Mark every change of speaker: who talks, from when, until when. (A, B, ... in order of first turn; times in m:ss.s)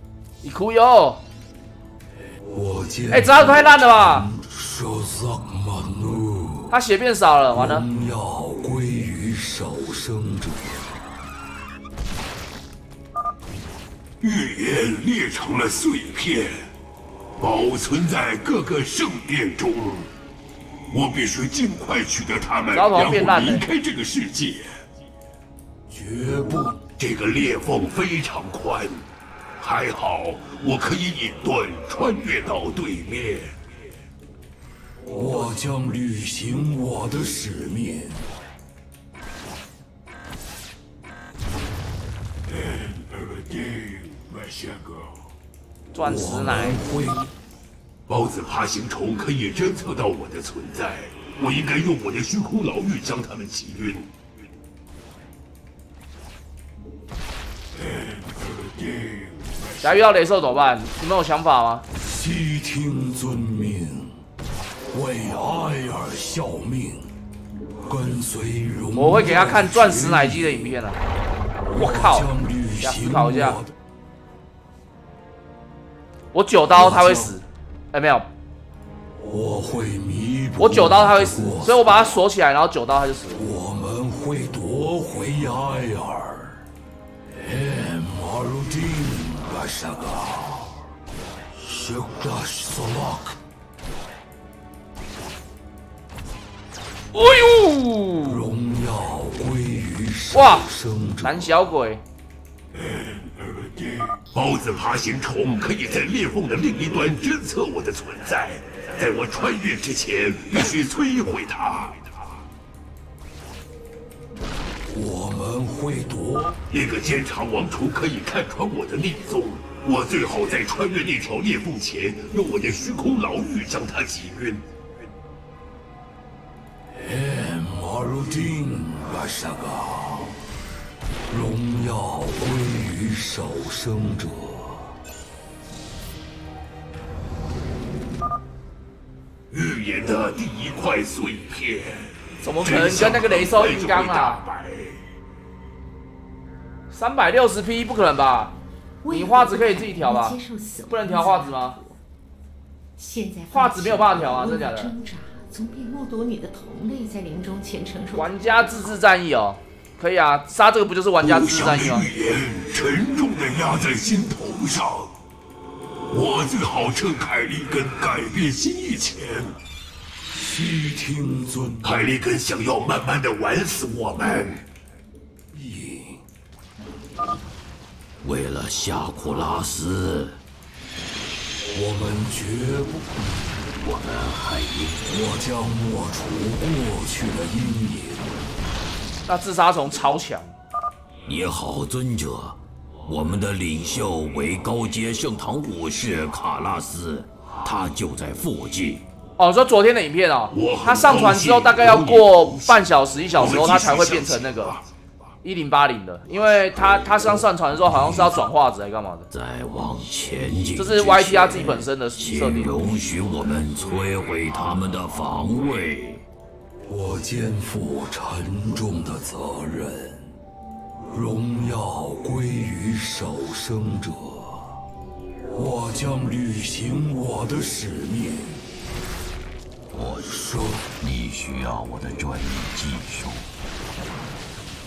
0:00.4-0:01.2 A
0:02.4-0:06.8 B
0:03.1-0:04.3 A
0:06.7-0:07.8 A
0:07.5-0:11.0 B
0:14.2-0:16.7 C
0:17.4-0:20.1 C
0:20.9-0:24.8 C
0:22.7-0:23.6 A
0:25.9-0:26.8 B
0:27.0-0:29.0 C
0:29.6-0:33.5 C
0:35.1-0:38.3 B
0:44.1-0:44.8 C
0:45.9-0:46.8 A
0:46.0-0:47.3 B
0:48.1-0:54.1 C
0:59.8-1:01.8 A
1:01.9-1:04.2 B
1:04.9-1:07.1 B
1:07.8-1:10.8 B
1:08.9-1:11.0 A
1:11.6-1:13.7 B
1:11.8-1:13.6 A
1:16.3-1:18.3 A
1:16.7-1:17.4 B
1:19.2-1:22.0 B
1:20.6-1:23.4 A
1:23.3-1:26.6 B
1:27.3-1:30.8 B
1:31.5-1:33.4 B
1:37.1-1:38.4 A
1:38.2-1:41.5 B
1:40.3-1:40.7 A
1:41.2-1:42.0 A
1:44.3-1:52.1 C
1:54.9-1:56.6 B
1:56.7-2:04.6 C
2:06.9-2:10.4 B
2:11.3-2:15.0 B
2:19.5-2:25.0 C
2:22.4-2:24.4 A
2:26.9-2:28.5 A
2:29.0-2:32.0 D
2:29.1-2:30.4 A
2:30.9-2:31.8 A
2:33.0-2:38.4 D
2:33.5-2:34.9 A
2:38.1-2:42.1 A
2:41.2-2:45.1 C
2:46.1-2:49.6 C
2:50.3-2:52.0 B
2:51.8-2:54.6 C
2:55.5-2:56.2 B
2:58.2-3:00.4 E
3:01.7-3:03.7 B
3:03.7-3:05.0 E
3:05.0-3:08.4 B
3:09.3-3:10.5 A
3:11.2-3:19.0 E
3:19.4-3:24.8 A
3:20.5-3:24.8 C
3:25.4-3:29.3 A
3:27.9-3:28.4 E
3:29.3-3:36.2 E
3:30.8-3:32.8 A
3:36.9-3:40.3 B
3:41.1-3:44.8 B
3:45.5-3:48.6 B
3:49.9-3:50.3 E
3:50.4-3:50.8 B
3:50.9-3:53.5 E